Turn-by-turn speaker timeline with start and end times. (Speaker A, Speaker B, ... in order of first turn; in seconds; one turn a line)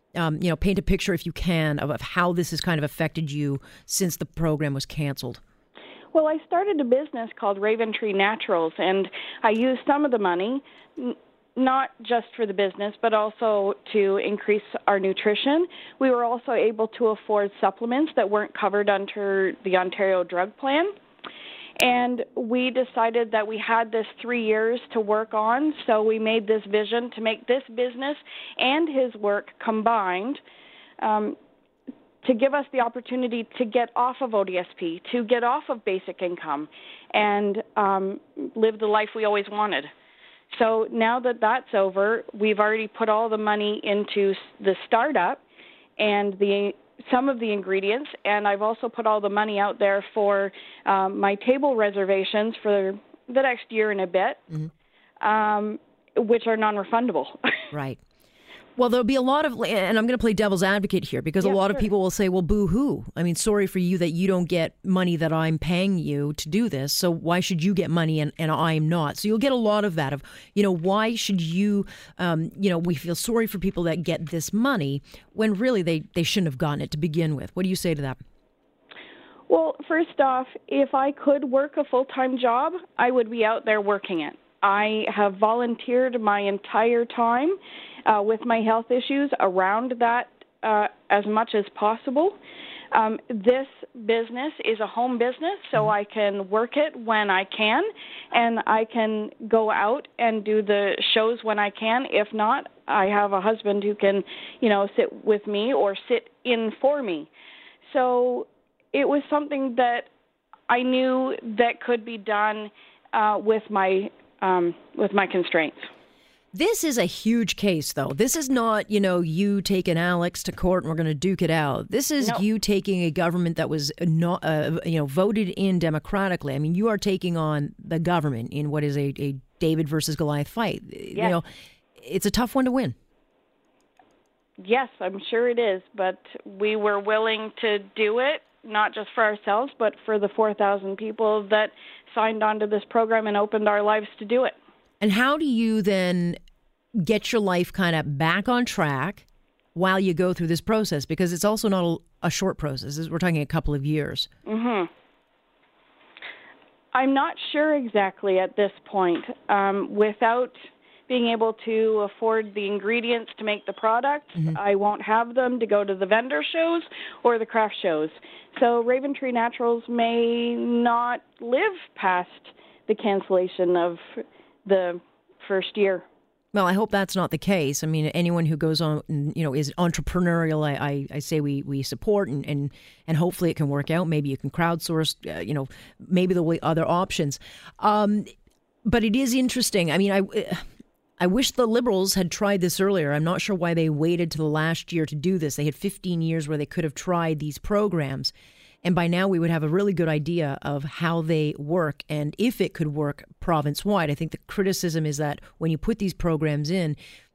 Speaker A: 0.1-5.4
Speaker B: 6.1-20.9
Speaker B: 21.8-30.4
Speaker B: 31.0-31.4
Speaker B: 32.2-39.9
Speaker B: 40.5-45.4
Speaker B: 46.0-54.6
Speaker B: 55.2-57.7
Speaker A: 57.7-58.0
Speaker A: 58.8-78.2
Speaker B: 61.4-61.8
Speaker B: 79.5-92.4
Speaker B: 92.9-107.3
Speaker B: 107.8-110.1
Speaker B: 110.7-115.9
Speaker A: 116.5-131.4
Speaker A: 132.0-132.9
Speaker B: 134.6-144.6
Speaker A: 145.0-146.4
Speaker A: 147.0-154.3
Speaker B: 154.4-154.9
Speaker B: 156.9-160.5
Speaker B: 161.1-176.1
Speaker A: 176.5-188.3
Speaker A: 188.8-190.6
Speaker A: 191.2-207.0